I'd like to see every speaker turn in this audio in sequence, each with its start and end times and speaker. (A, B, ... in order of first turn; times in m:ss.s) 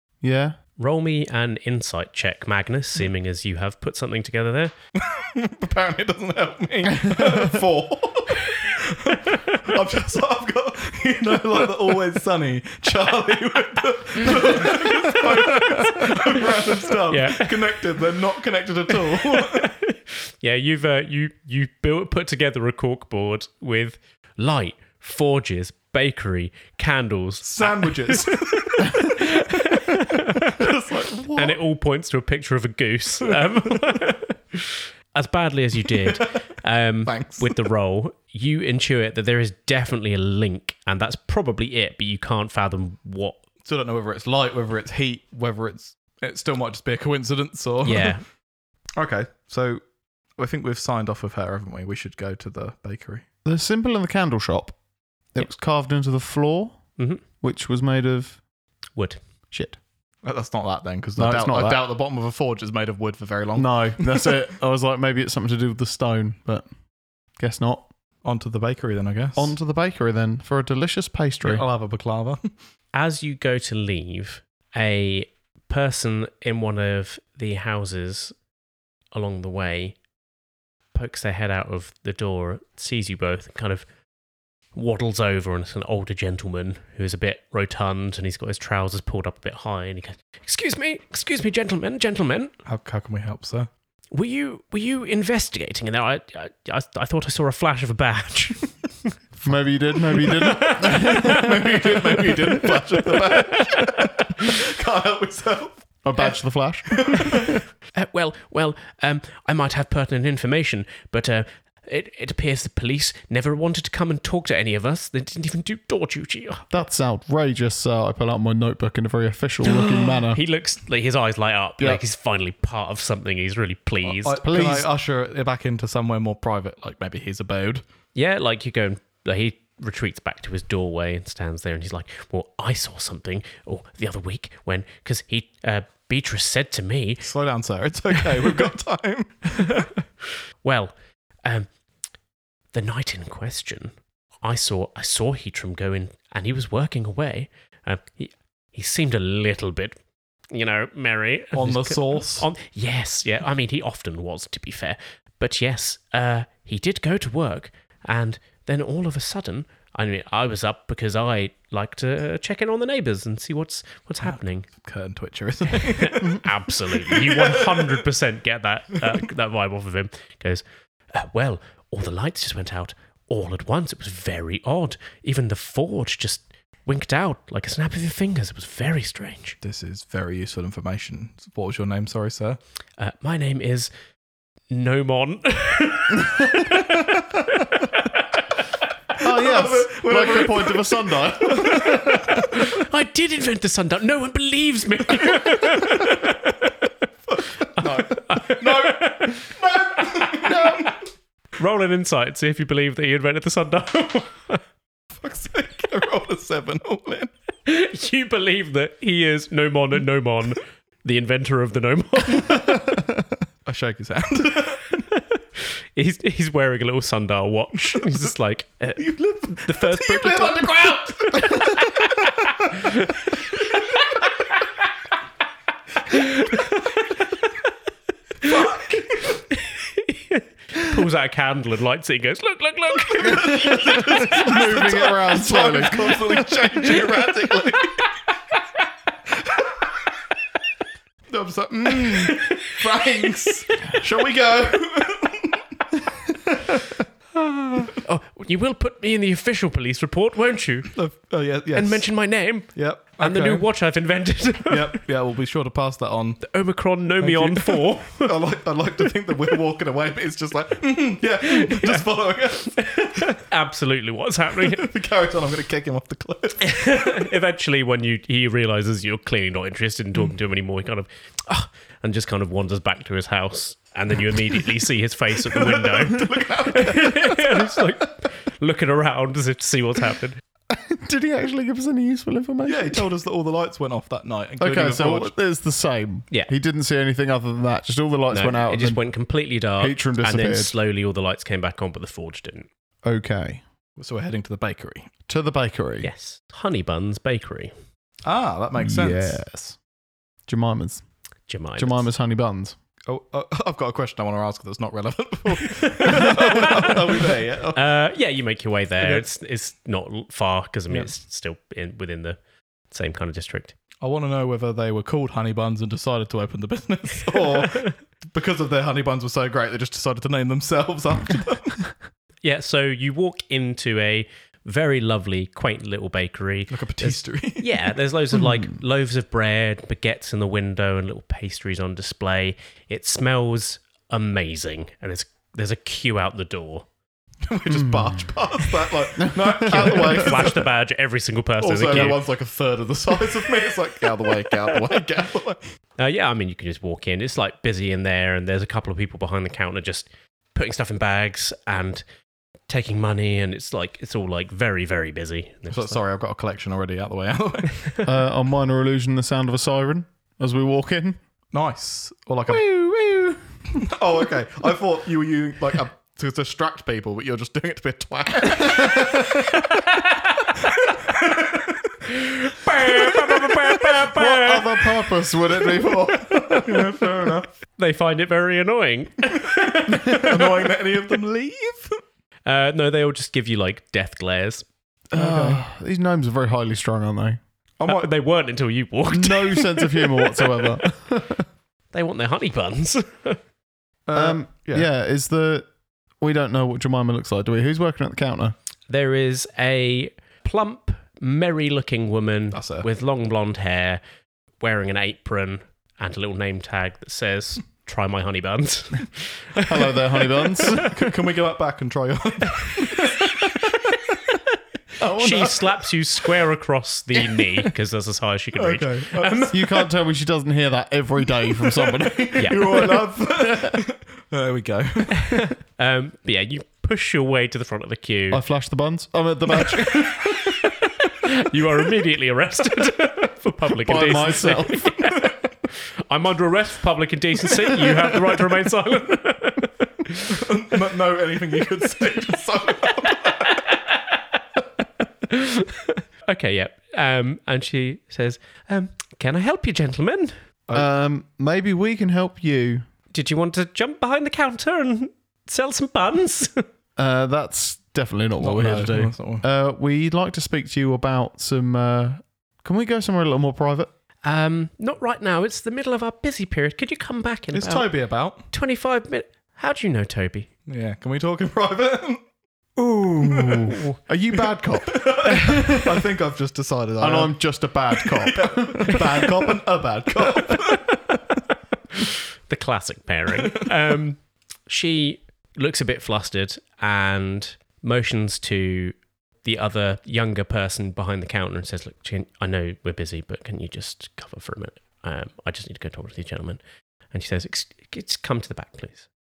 0:00.2-0:00.6 A
0:00.8-0:04.7 B
0:05.0-0:19.7 C
0:07.2-0:07.6 A
0:14.3-0:16.1 B
0:17.1-0:17.8 B
0:19.1-0:30.7 B
0:27.4-0:29.4 C
0:30.4-0:31.6 C
0:31.4-0:43.4 B
0:37.1-0:37.7 C
0:43.6-0:48.2 C
0:47.8-0:48.2 B
0:49.0-0:49.8 C
0:50.4-0:53.3 C
0:53.4-0:54.8 A
0:55.3-0:56.8 A
0:57.0-0:57.2 B
0:57.4-0:58.4 A
0:59.5-0:59.8 A
1:00.2-1:04.4 C
1:01.2-1:01.9 A
1:03.6-1:06.7 A
1:07.4-1:07.9 A
1:08.2-1:09.6 C
1:09.4-1:11.7 A
1:11.4-1:12.5 C
1:13.0-1:18.4 B
1:19.1-1:20.0 B
1:20.9-1:23.8 B
1:24.7-1:32.6 B
1:32.6-1:33.7 C
1:34.1-1:38.7 B
1:39.4-1:42.8 A
1:40.2-1:44.4 B
1:41.0-1:46.3 C
1:46.0-1:47.6 A
1:46.9-1:47.5 C
1:48.0-1:56.7 B
1:56.7-2:00.4 A
1:59.6-2:04.4 B
2:04.0-2:07.8 C
2:04.4-2:04.9 A
2:08.2-2:17.2 B
2:17.2-2:19.9 C
2:20.6-2:21.7 B
2:22.7-2:30.0 B
2:30.5-2:44.7 B
2:31.5-2:32.5 C
2:44.3-2:48.0 C
2:45.8-2:59.6 B
2:59.6-3:02.6 C
3:03.0-3:03.9 B
3:04.7-3:06.9 B
3:06.3-3:07.2 A
3:07.5-3:08.4 B
3:09.2-3:12.4 C
3:09.2-3:12.5 A
3:12.2-3:16.7 B
3:15.7-3:16.0 C
3:17.3-3:20.9 C
3:17.8-3:20.9 B
3:20.4-3:20.9 A
3:21.6-3:24.6 B
3:25.2-3:27.3 C
3:27.7-3:32.9 B
3:33.7-3:35.0 C
3:35.1-3:44.7 B
3:39.0-3:41.9 C
3:46.1-3:47.5 B
3:48.4-3:54.3 B
3:48.4-3:49.3 C
3:53.2-3:58.1 C
3:53.2-3:56.5 A
4:01.3-4:05.6 C
4:02.1-4:02.6 B
4:07.9-4:11.0 B
4:10.9-4:13.7 C
4:11.7-4:15.0 B
4:14.7-4:16.6 C
4:16.4-4:18.3 B
4:17.2-4:23.3 C
4:21.4-4:22.0 B
4:22.8-4:24.9 B
4:24.6-4:27.2 C
4:26.6-4:40.4 B
4:35.5-4:37.8 C
4:40.7-4:43.1 A
4:42.6-4:45.3 C
4:44.6-4:49.0 A
4:48.3-4:52.7 B
4:49.8-4:50.7 A
4:53.0-4:53.6 A
4:54.0-4:55.1 C
4:55.3-4:56.1 A
4:56.0-4:57.7 B
4:58.2-4:59.4 C
4:58.8-4:59.8 A
5:00.5-5:01.0 A
5:01.5-5:02.1 B
5:01.8-5:02.8 A
5:03.1-5:07.8 C
5:06.0-5:12.4 B
5:12.9-5:13.7 B
5:14.0-5:21.8 C
5:17.4-5:17.9 B
5:22.4-5:36.9 B
5:26.7-5:27.7 C
5:28.3-5:28.7 A
5:37.5-5:40.7 C
5:37.7-5:38.3 A
5:39.2-5:40.4 A
5:39.7-5:42.2 B
5:41.6-5:45.6 C
5:46.0-5:52.0 B
5:52.7-5:56.0 B
5:55.7-5:57.9 C
5:58.0-6:01.2 A
6:01.5-6:02.6 C
6:02.5-6:03.4 A
6:03.7-6:09.3 C
6:08.6-6:09.5 A
6:09.5-6:11.0 B
6:11.0-6:11.9 C
6:12.0-6:14.9 B
6:14.0-6:17.3 A
6:16.5-6:17.5 C
6:17.7-6:20.3 B
6:19.9-6:20.5 A
6:20.1-6:22.0 C
6:22.5-6:24.7 B
6:25.1-6:27.4 A
6:25.1-6:25.6 C
6:27.8-6:28.1 C
6:27.8-6:30.8 B
6:29.1-6:31.5 A
6:31.9-6:33.4 B
6:34.1-6:34.9 C
6:34.1-6:35.7 A
6:36.2-6:38.6 A
6:38.9-6:44.0 B
6:42.5-6:42.9 C
6:44.6-6:49.9 B
6:49.6-6:51.1 A
6:50.6-6:53.3 C
6:52.9-6:53.2 B
6:55.0-6:55.6 A
6:55.2-6:59.6 B
6:58.6-6:59.7 C
6:59.5-7:03.8 A
7:01.6-7:05.4 C
7:05.2-7:08.4 B
7:08.3-7:10.5 A
7:10.0-7:20.5 B
7:13.8-7:15.1 A
7:20.3-7:23.6 C
7:23.0-7:24.4 B
7:25.2-7:30.4 B
7:30.7-7:32.9 A
7:33.1-7:36.6 B
7:37.0-7:43.9 A
7:38.4-7:39.5 C
7:44.2-7:47.9 B
7:47.5-7:48.5 C
7:48.5-7:50.5 B
7:50.7-7:52.2 C
7:52.8-7:56.0 A
7:53.2-7:53.7 C
7:54.9-8:00.9 C
7:57.0-7:59.6 A
8:02.0-8:19.1 B